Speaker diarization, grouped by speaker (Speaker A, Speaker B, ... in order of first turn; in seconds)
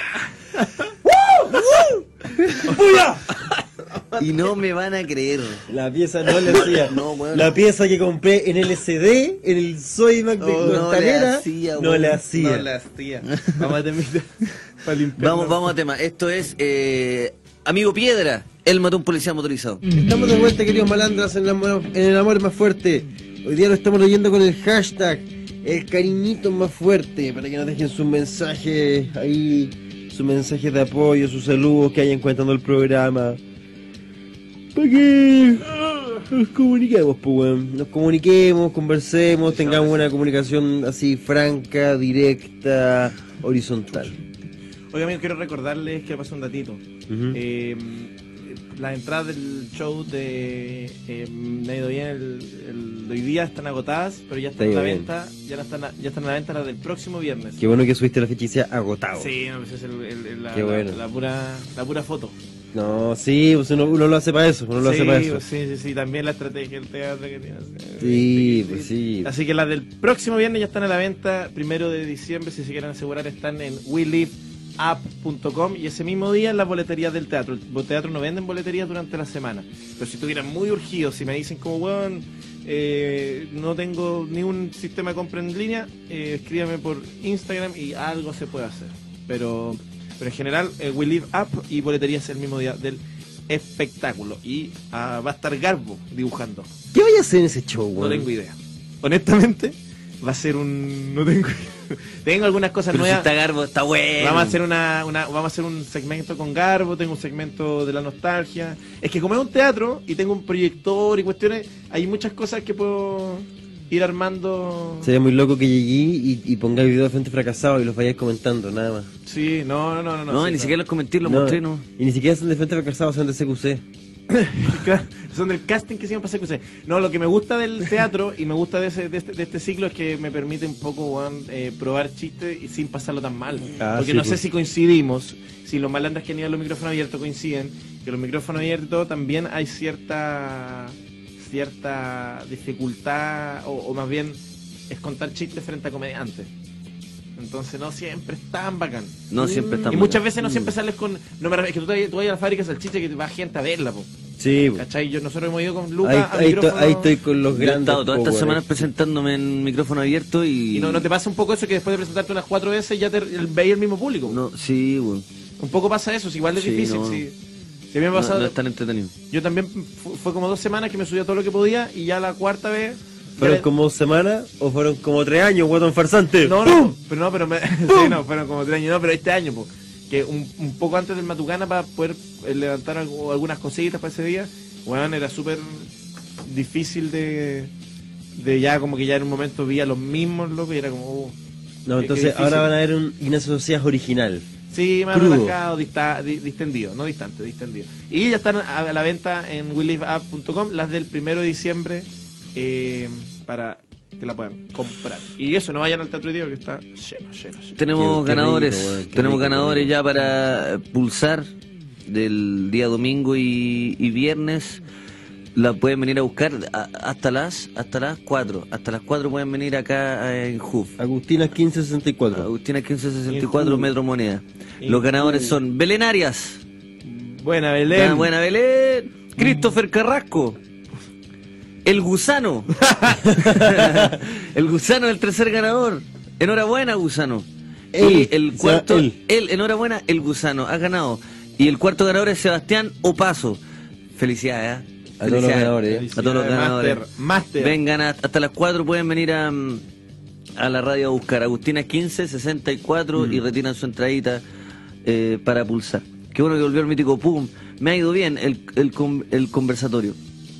Speaker A: 1.5-3.1, 5.7-12.7, 19.9-33.4, 34.8-44.2, 47.1-47.4, 54.6-55.1, 57.6-59.3, 60.5-61.0, 62.7-65.4, 68.0-69.3, 96.9-98.3, 115.0-119.1, 121.2-123.8, 133.8-134.4, 149.4-150.6, 154.4-154.8, 156.0-158.9, 173.4-177.0, 177.9-178.2, 191.9-194.5, 195.1-195.6, 208.0-210.0, 221.0-222.5, 233.3-234.1, 237.9-239.2, 245.2-246.1, 253.2-253.4
Speaker B: 2.6-4.5, 10.5-10.8, 12.3-15.7, 39.5-40.0, 44.9-57.6, 59.1-62.4, 64.8-96.7, 98.0-103.3, 104.2-115.1, 119.3-120.8, 124.3-144.4, 144.9-146.5, 147.4-149.2, 149.9-154.1, 154.8-157.2, 160.7-164.4, 165.6-167.3, 167.9-168.6, 169.3-173.7, 176.4-185.9, 186.4-187.7, 188.4-191.3, 192.0-192.7, 194.7-207.8, 223.3-223.9, 224.8-225.6, 227.0-228.3, 232.8-233.2, 245.8-247.8
Speaker C: 4.2-5.7, 6.5-7.5, 10.4-12.2, 15.2-19.9, 102.9-104.6, 120.3-121.8, 149.3-150.2, 157.5-161.1, 164.3-165.3, 166.6-167.2, 168.1-169.1, 207.8-211.5, 212.1-214.8, 215.6-221.0, 222.3-226.6, 227.9-230.6, 231.8-232.7, 233.3-243.6, 244.2-247.0, 247.6-249.8, 250.6-254.4, 255.1-260.2